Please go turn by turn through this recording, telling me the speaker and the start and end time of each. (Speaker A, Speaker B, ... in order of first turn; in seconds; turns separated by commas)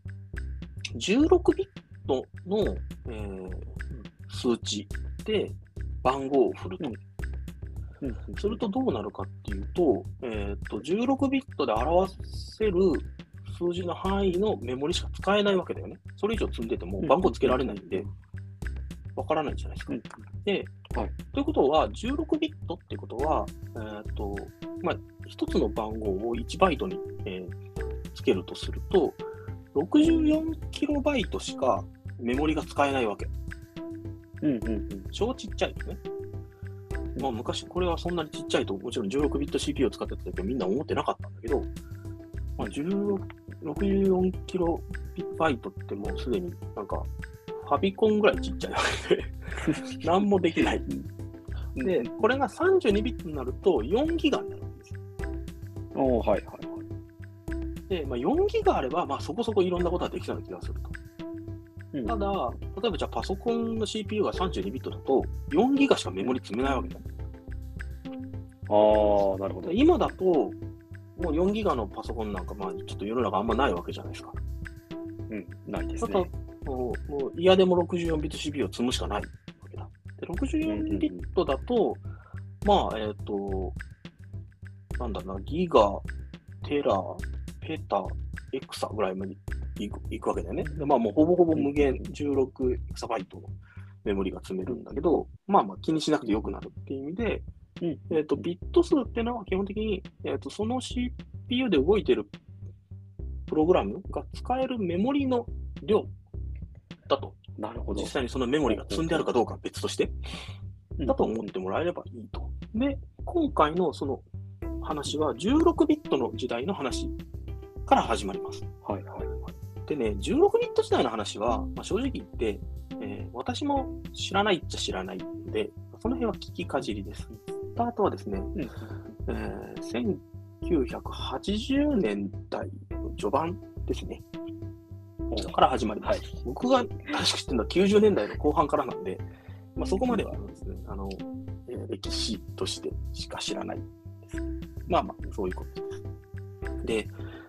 Speaker A: 0.9-7.0, Speaker B: 8.0-8.6, Speaker A: 8.4-18.1, Speaker B: 17.0-18.1, Speaker A: 19.1-27.5, Speaker B: 19.9-20.2, Speaker A: 28.1-33.3, Speaker B: 30.0-30.4, Speaker B: 34.4-35.1, Speaker A: 35.1-36.0, Speaker A: 37.2-41.7, Speaker A: 42.6-47.1, Speaker A: 47.6-50.9, Speaker B: 49.6-50.0, Speaker B: 51.8-52.2, Speaker A: 51.8-55.0, Speaker B: 55.9-56.9, Speaker A: 57.9-60.9, Speaker A: 62.0-67.0, Speaker B: 68.7-69.8, Speaker A: 69.6-70.6, Speaker A: 71.2-74.4, Speaker B: 75.3-76.3, Speaker A: 76.0-82.0, Speaker B: 80.7-81.2, Speaker A: 82.6-83.8, Speaker A: 85.0-86.0, Speaker A: 86.6-97.5, Speaker B: 90.6-90.9, Speaker B: 91.5-91.8, Speaker B: 97.8-98.4, Speaker A: 98.1-102.3, Speaker A: 103.5-106.1, Speaker A: 107.1-110.1, Speaker B: 107.6-108.1, Speaker B: 108.7-109.3, Speaker B: 111.0-111.5, Speaker A: 111.0-114.2, Speaker A: 114.8-117.2, Speaker A: 117.9-118.7, Speaker B: 118.8-119.3, Speaker A: 119.8-128.5, Speaker B: 128.5-129.0, Speaker A: 129.2-134.2, Speaker B: 135.3-136.3, Speaker A: 135.3-139.2, Speaker A: 139.8-146.0, Speaker B: 140.1-140.3, Speaker A: 146.8-147.1